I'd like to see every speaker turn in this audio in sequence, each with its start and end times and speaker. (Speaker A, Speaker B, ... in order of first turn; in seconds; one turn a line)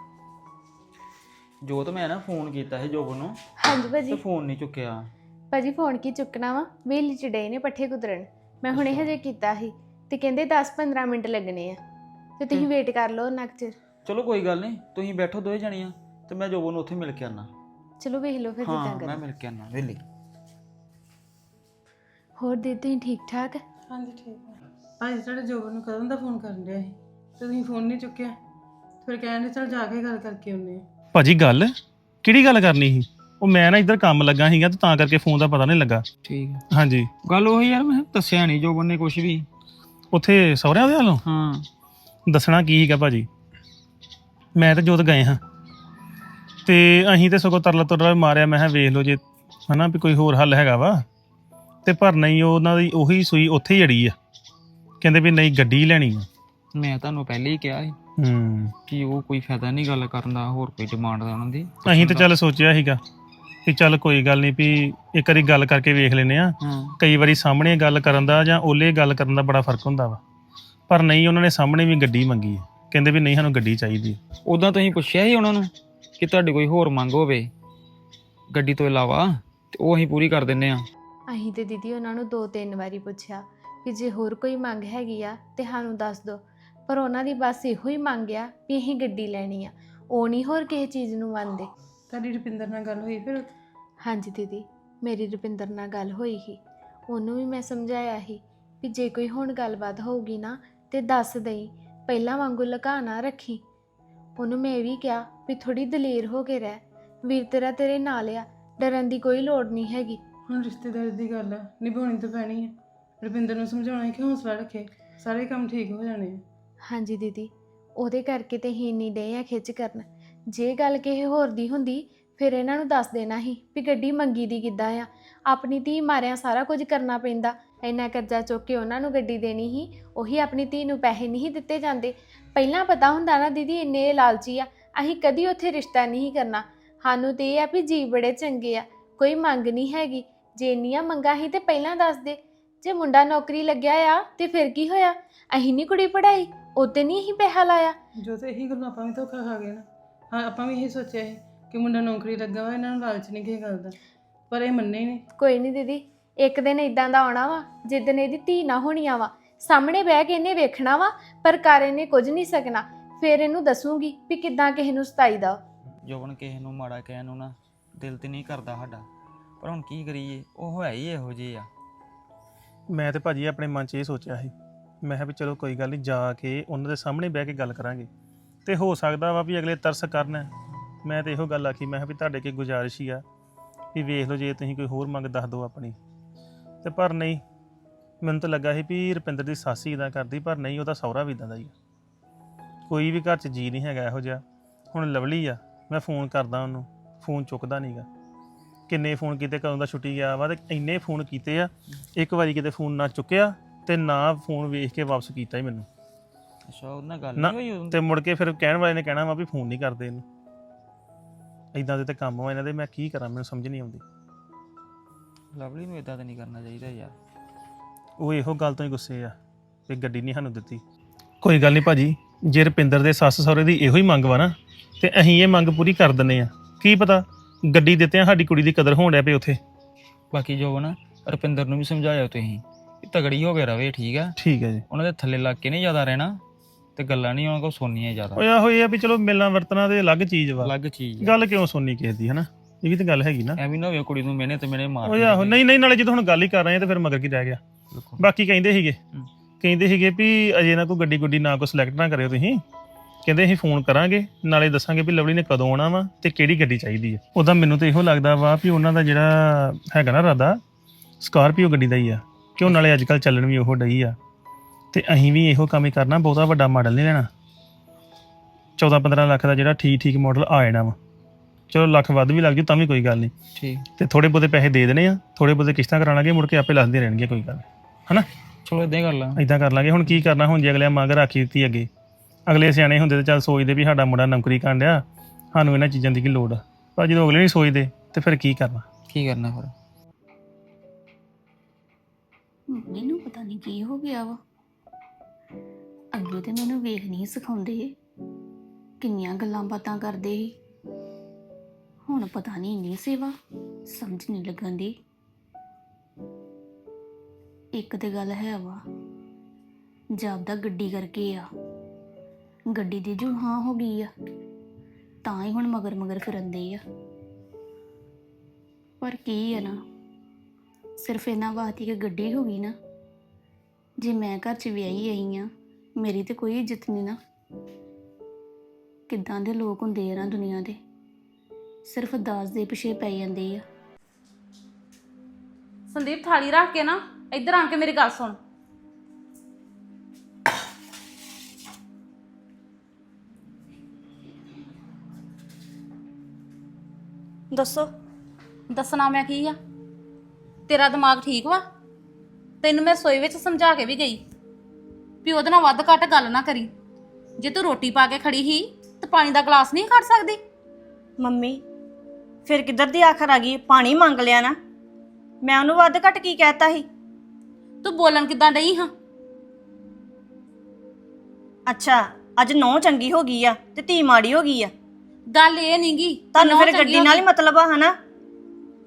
Speaker A: 1.6-3.4
Speaker B: 3.6-4.2
Speaker A: 4.1-5.1
Speaker B: 5.5-11.8
Speaker A: 8.7-9.1
Speaker B: 12.4-13.8
Speaker A: 14.1-17.5
Speaker B: 18.0-19.2
Speaker A: 18.6-20.0
Speaker B: 22.4-23.6
Speaker C: 23.9-28.4
Speaker C: 29.0-30.8
Speaker D: 31.1-36.1
Speaker A: 36.2-36.6
Speaker D: 36.7-37.1
Speaker A: 37.2-39.5
Speaker D: 40.1-41.2
Speaker A: 41.2-41.7
Speaker D: 42.3-43.3
Speaker D: 44.6-45.4
Speaker D: 46.6-51.0
Speaker D: 51.9-54.2
Speaker D: 55.0-56.3
Speaker A: 56.8-58.0
Speaker D: 58.2-58.8
Speaker A: 58.9-62.3
Speaker D: 61.9-63.0
Speaker D: 63.7-70.2
Speaker A: 66.6-67.0
Speaker D: 70.9-74.2
Speaker A: 74.5-77.5
Speaker A: 78.5-80.8
Speaker B: 81.3-91.7
Speaker C: 92.1-93.5
Speaker B: 94.0-103.6
Speaker B: 104.4-110.2
Speaker C: 110.5-116.4
Speaker B: 116.8-148.0
Speaker C: 148.2-153.9
Speaker C: 154.5-155.2
Speaker B: 155.4-165.6
Speaker A: 166.1-169.1
Speaker A: 169.6-171.7
Speaker D: 172.9-174.5
Speaker D: 175.0-178.1
Speaker D: 178.7-180.5
Speaker D: 181.0-183.2
Speaker D: 183.9-186.0
Speaker D: 186.8-187.4
Speaker D: 188.2-191.7
Speaker D: 192.9-198.1
Speaker D: 198.9-205.9
Speaker A: 206.7-208.0
Speaker D: 207.4-210.2
Speaker D: 211.7-214.0
Speaker A: 215.6-217.2
Speaker D: 218.2-219.4
Speaker D: 219.9-220.8
Speaker D: 221.4-229.6
Speaker A: 230.3-234.3
Speaker D: 234.4-234.8
Speaker A: 234.9-236.4
Speaker A: 237.0-238.4
Speaker D: 238.4-243.6
Speaker A: 240.6-241.4
Speaker A: 243.6-245.6
Speaker D: 245.1-247.6
Speaker A: 247.9-248.2
Speaker D: 248.2-249.0
Speaker D: 249.6-252.6
Speaker D: 253.2-260.6
Speaker D: 261.2-264.2
Speaker D: 264.9-267.3
Speaker D: 268.8-271.0
Speaker D: 271.7-273.3
Speaker A: 273.6-273.9
Speaker D: 274.0-278.3
Speaker A: 278.7-279.4
Speaker D: 279.4-281.9
Speaker D: 282.5-288.9
Speaker A: 289.1-289.7
Speaker E: 292.7-294.4
Speaker E: 296.1-297.9
Speaker E: 299.0-300.5
Speaker E: 302.1-303.4
Speaker E: 303.9-304.9
Speaker E: 307.8-308.8
Speaker E: 310.1-311.5
Speaker E: 312.7-314.1
Speaker E: 315.2-316.8
Speaker E: 319.0-319.8
Speaker E: 321.0-322.7
Speaker E: 324.0-325.5
Speaker E: 326.0-327.2
Speaker E: 329.1-330.8
Speaker E: 331.9-333.6
Speaker F: 335.9-338.4
Speaker G: 347.5-347.9
Speaker F: 348.7-349.6
Speaker F: 350.7-351.6
Speaker F: 352.6-354.2
Speaker F: 355.2-356.7
Speaker F: 357.4-360.4
Speaker G: 361.2-361.6
Speaker G: 362.5-364.6
Speaker G: 365.4-366.9
Speaker F: 367.8-368.9
Speaker G: 371.7-374.7
Speaker F: 375.3-377.2
Speaker G: 376.4-377.9